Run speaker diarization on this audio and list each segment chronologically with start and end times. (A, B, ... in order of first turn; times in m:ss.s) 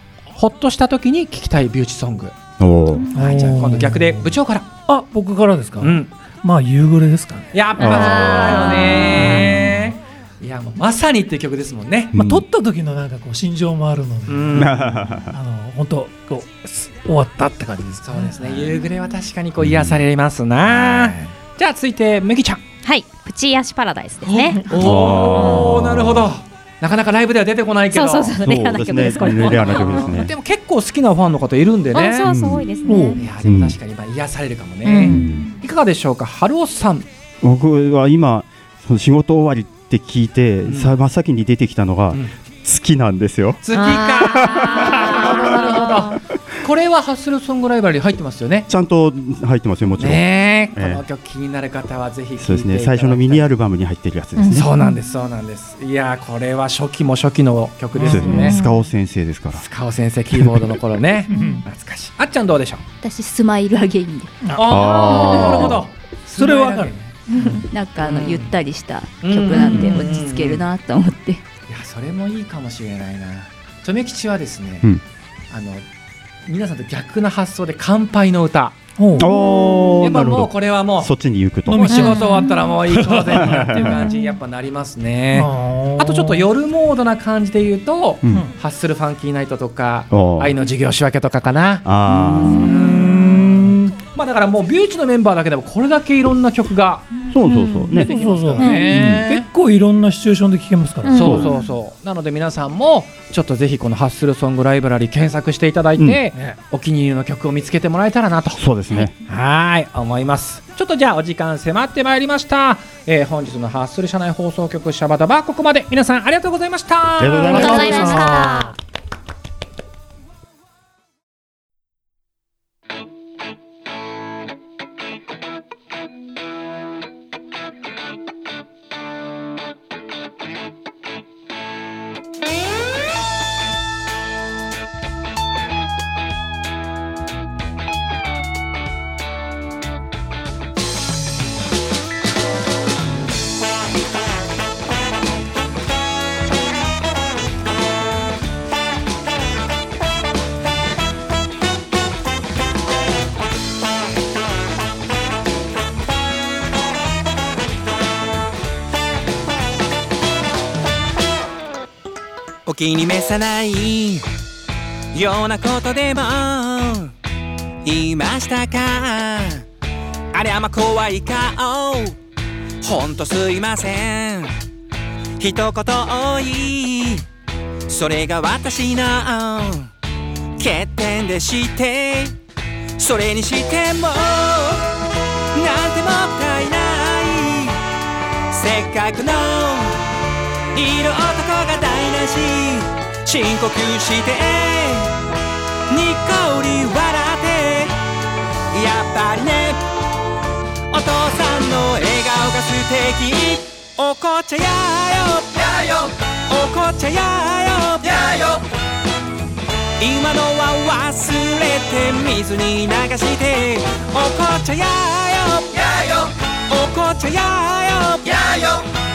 0:00.3-0:02.4 A
0:02.6-0:03.1 B
0:03.1-0:04.4 C
0:03.1-0:04.7 A
0:04.9-0:07.5 C
0:05.8-0:06.1 A
0:07.5-0:12.2 A
0:07.8-0:09.9 B
0:12.1-0:18.8 C
0:12.1-0:12.4 B
0:14.3-0:15.0 A
0:14.5-0:15.3 B
0:18.0-0:22.6 A
0:19.6-0:20.0 B
0:20.7-0:21.1 B
0:22.8-0:24.7 D
0:24.2-0:28.4 A
0:24.7-0:26.3 B
0:25.3-0:25.7 D
0:27.9-0:30.2 D
0:28.4-0:30.3 B
0:29.2-0:32.3 A
0:31.9-0:33.2 D
0:32.2-0:32.9 B
0:32.8-0:33.2 C
0:33.1-0:37.1 A
0:33.4-0:33.8 B
0:34.8-0:35.3 D
0:35.0-0:35.5 B
0:37.4-0:43.6 B
0:40.6-0:41.0 A
0:43.6-0:48.7 A
0:43.7-0:46.1 D
0:44.2-0:46.1 B
0:48.7-0:51.0 B
0:50.0-0:53.5 A
0:52.4-0:54.7 B
0:54.4-0:54.7 D
0:54.5-0:58.6 A
0:57.9-0:58.6 C
0:58.0-0:59.6 B
0:58.3-0:58.8 D
0:59.5-1:02.8 A
1:01.3-1:01.6 C
1:03.0-1:04.4 E
1:04.4-1:04.8 C
1:04.5-1:08.5 A
1:04.6-1:05.8 B
1:06.4-1:07.0 C
1:07.6-1:11.4 E
1:09.2-1:10.6 A
1:11.7-1:14.9 A
1:15.5-1:15.8 A
1:16.5-1:19.2 A
1:19.0-1:19.3 C
1:19.2-1:22.0 B
1:20.0-1:21.1 A
1:21.6-1:23.8 C
1:21.8-1:31.9 A
1:21.9-1:22.4 D
1:23.3-1:24.0 B
1:25.3-1:26.5 C
1:30.1-1:30.5 B
1:31.8-1:32.9 B
1:32.2-1:33.9 C
1:32.6-1:37.1 A
1:37.3-1:39.2 B
1:37.4-1:38.9 D
1:37.9-1:41.5 C
1:38.0-1:39.5 A
1:41.0-1:41.6 D
1:41.1-1:48.6 A
1:41.2-1:41.5 B
1:46.0-1:46.2 B
1:48.6-1:49.1 B
1:49.2-1:58.4 A
1:57.2-1:58.7 B
1:57.5-1:58.7 D
1:57.5-1:58.5 E
1:57.5-1:58.6 C
2:42.7-2:44.2 F
2:45.1-2:47.1 F
2:47.8-2:49.6 F
2:50.3-2:52.2 F
2:52.8-2:54.5 F
2:55.4-2:57.2 F
2:57.9-2:59.9 F
3:00.6-3:02.3 F
3:03.0-3:05.0 F
3:05.5-3:07.8 F
3:08.5-3:10.1 F
3:10.7-3:15.2 F
3:15.9-3:17.9 F
3:18.7-3:20.0 F
3:20.9-3:28.6 F
3:30.0-3:38.8 F